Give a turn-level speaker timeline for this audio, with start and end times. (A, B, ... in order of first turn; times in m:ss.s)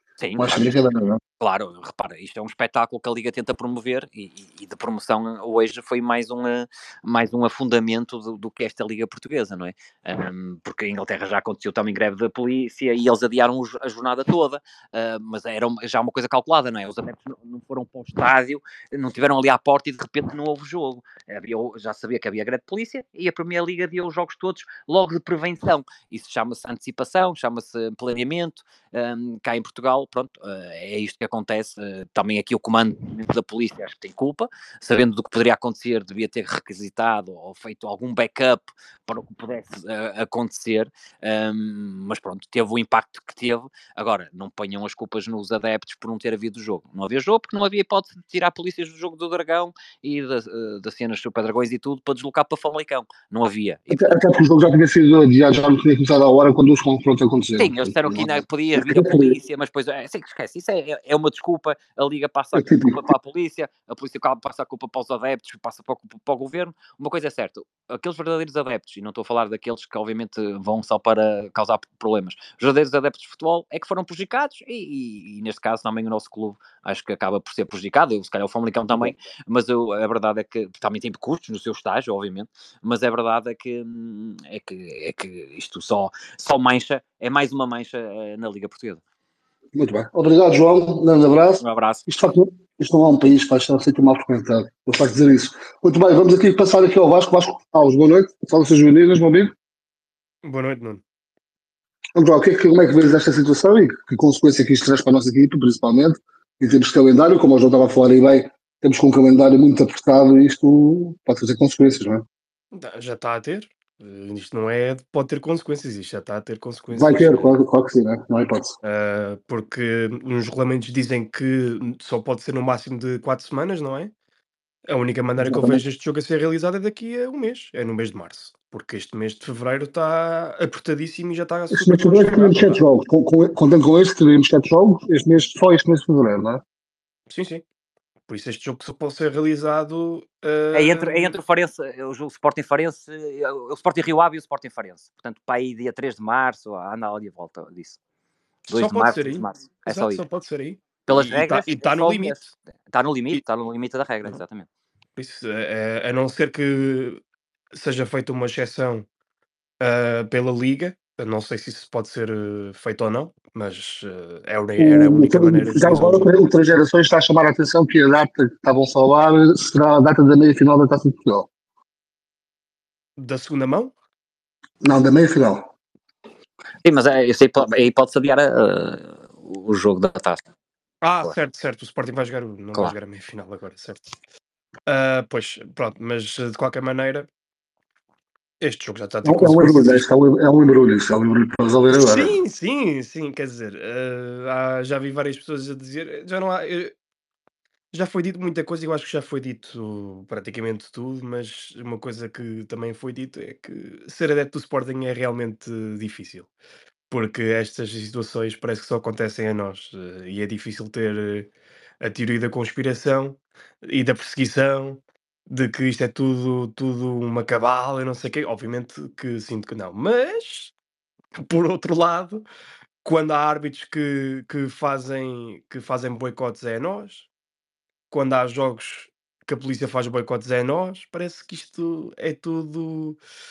0:00.2-0:00.7 A
0:00.4-0:01.2 B
0:01.4-0:54.2 A
0:53.9-0:59.4 B
0:57.6-1:29.0 A
1:02.6-1:03.0 B
1:29.8-1:39.5 B
1:31.6-1:32.0 A
1:40.4-1:41.0 C
1:42.2-1:52.2 B
1:52.7-1:57.5 C
1:56.9-1:58.8 B
1:58.8-2:04.1 C
2:04.9-2:12.8 C
2:05.4-2:05.8 B
2:11.7-2:16.6 B
2:17.3-2:17.6 C
2:18.3-2:21.4 C
2:20.7-2:28.0 A
2:28.7-2:30.2 A
2:28.7-2:32.5 C
2:31.1-2:34.7 A
2:35.2-2:37.2 C
2:37.7-2:39.0 C
2:39.8-2:46.3 C
2:44.8-2:51.5 B
2:53.2-2:53.9 C
2:54.8-2:55.7 B
2:56.8-3:00.4 A
3:01.0-3:04.0 C
3:04.9-3:07.3 C
3:08.6-3:10.0 C
3:09.2-3:12.3 B
3:11.9-3:16.9 C
3:17.9-3:26.5 C
3:27.1-3:31.5 C
3:32.0-3:40.7 C
3:41.4-3:42.4 C
3:43.0-3:47.3 C
3:48.1-3:53.2 C